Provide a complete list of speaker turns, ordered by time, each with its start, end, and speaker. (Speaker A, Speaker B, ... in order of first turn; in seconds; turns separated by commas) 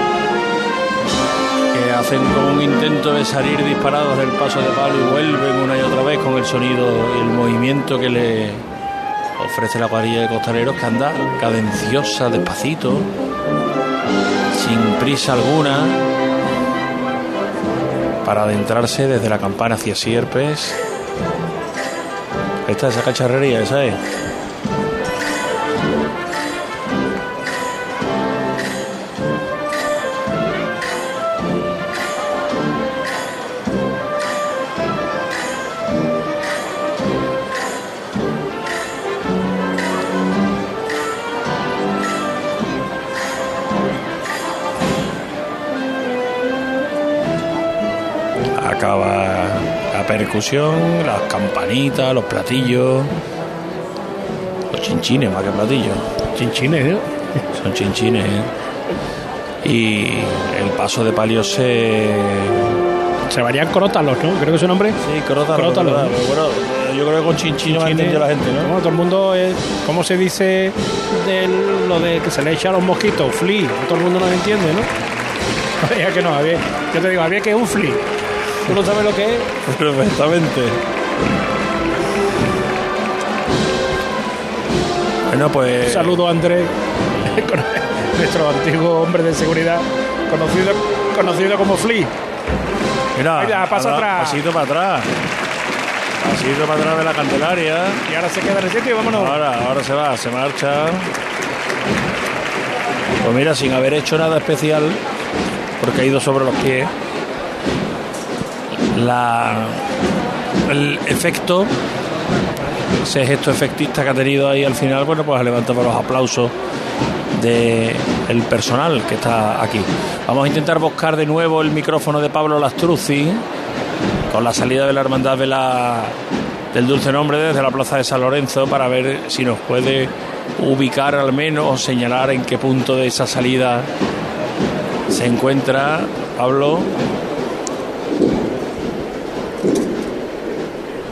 Speaker A: 1.7-8.7, Speaker A: 9.4-13.1, Speaker A: 14.5-16.0, Speaker A: 18.2-20.8, Speaker A: 22.7-24.0, Speaker A: 48.6-53.1, Speaker A: 54.7-56.0, Speaker B: 56.4-57.2, Speaker A: 57.5-58.5, Speaker A: 59.6-62.6, Speaker B: 63.3-65.0, Speaker A: 65.0-68.7, Speaker B: 65.5-66.1, Speaker B: 67.7-74.9, Speaker B: 75.8-78.0, Speaker B: 78.7-79.5, Speaker A: 79.7-80.8, Speaker A: 85.3-86.2, Speaker B: 85.8-86.7, Speaker B: 87.3-92.1, Speaker A: 93.2-95.1, Speaker B: 93.4-94.4, Speaker A: 96.2-98.0, Speaker B: 98.1-99.4, Speaker A: 99.1-101.1, Speaker A: 103.2-105.0, Speaker A: 105.8-106.9, Speaker A: 108.9-109.8, Speaker A: 110.7-111.7, Speaker A: 113.0-116.5, Speaker A: 117.4-123.4, Speaker A: 124.3-126.2, Speaker A: 126.7-133.9, Speaker A: 135.1-136.9